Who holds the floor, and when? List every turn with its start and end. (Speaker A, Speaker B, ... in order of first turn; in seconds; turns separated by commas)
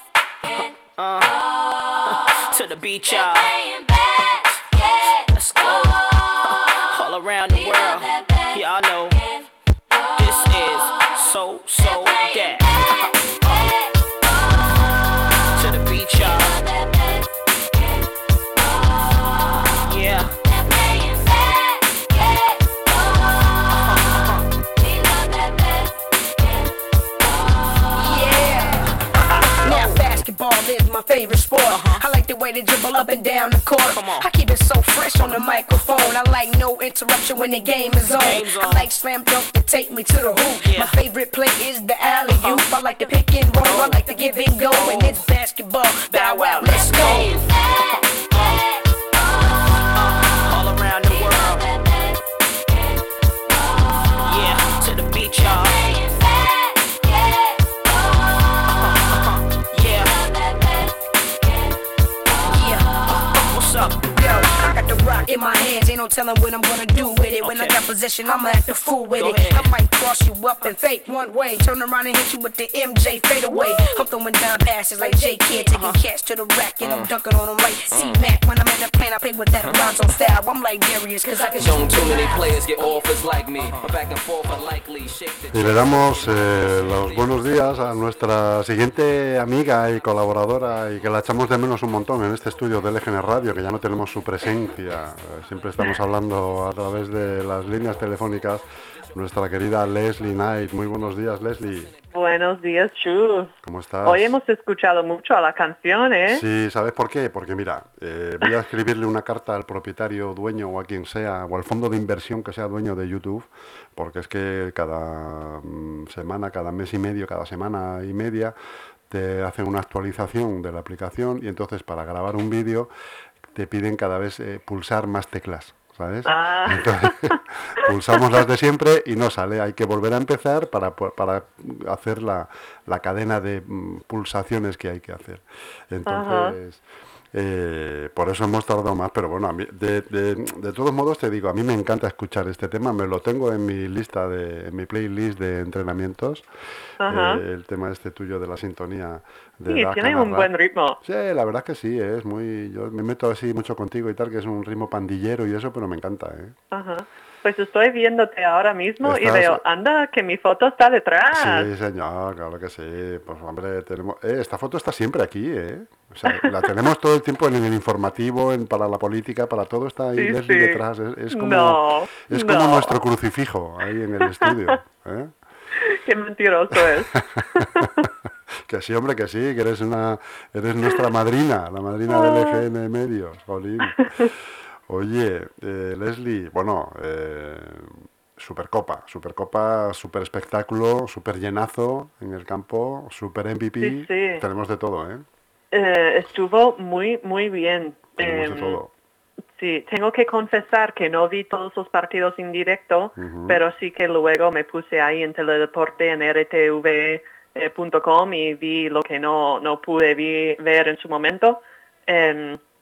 Speaker A: 0.5-1.5, Speaker A: 2.0-9.2, Speaker A: 10.2-13.5, Speaker A: 15.6-16.7, Speaker A: 19.8-20.4, Speaker A: 23.8-24.4, Speaker B: 27.9-29.0, Speaker A: 29.2-30.0, Speaker B: 29.6-47.4, Speaker A: 31.7-32.1, Speaker A: 33.9-34.3, Speaker A: 38.1-38.9, Speaker A: 40.6-41.0, Speaker A: 42.3-42.6, Speaker A: 43.6-44.0, Speaker A: 44.7-45.2, Speaker A: 46.1-48.7, Speaker A: 49.9-51.8, Speaker A: 54.2-56.1, Speaker A: 58.7-60.3, Speaker B: 62.4-62.9, Speaker A: 63.3-64.1, Speaker B: 64.1-83.1, Speaker A: 67.4-67.8, Speaker A: 69.1-69.7, Speaker A: 75.7-76.0, Speaker C: 76.8-77.1, Speaker C: 79.6-80.0, Speaker C: 81.6-88.0, Speaker A: 83.6-83.9, Speaker D: 85.5-101.9, Speaker E: 102.1-103.5, Speaker D: 103.6-104.4, Speaker E: 104.0-106.4, Speaker D: 106.3-118.5, Speaker D: 119.1-122.9, Speaker D: 123.5-146.5, Speaker E: 126.2-128.2, Speaker E: 136.1-136.6, Speaker E: 147.0-147.4, Speaker D: 147.0-156.6, Speaker E: 149.7-151.0, Speaker E: 156.7-161.7, Speaker D: 159.0-159.6, Speaker D: 161.3-175.3, Speaker E: 166.3-166.7, Speaker E: 170.2-173.0, Speaker E: 174.2-174.8, Speaker E: 175.8-178.1, Speaker D: 176.7-178.1, Speaker D: 178.7-195.2, Speaker E: 182.1-182.6, Speaker E: 184.0-184.3, Speaker E: 193.8-194.4, Speaker E: 195.7-198.8, Speaker D: 198.2-198.9, Speaker E: 199.6-212.6, Speaker D: 203.2-203.6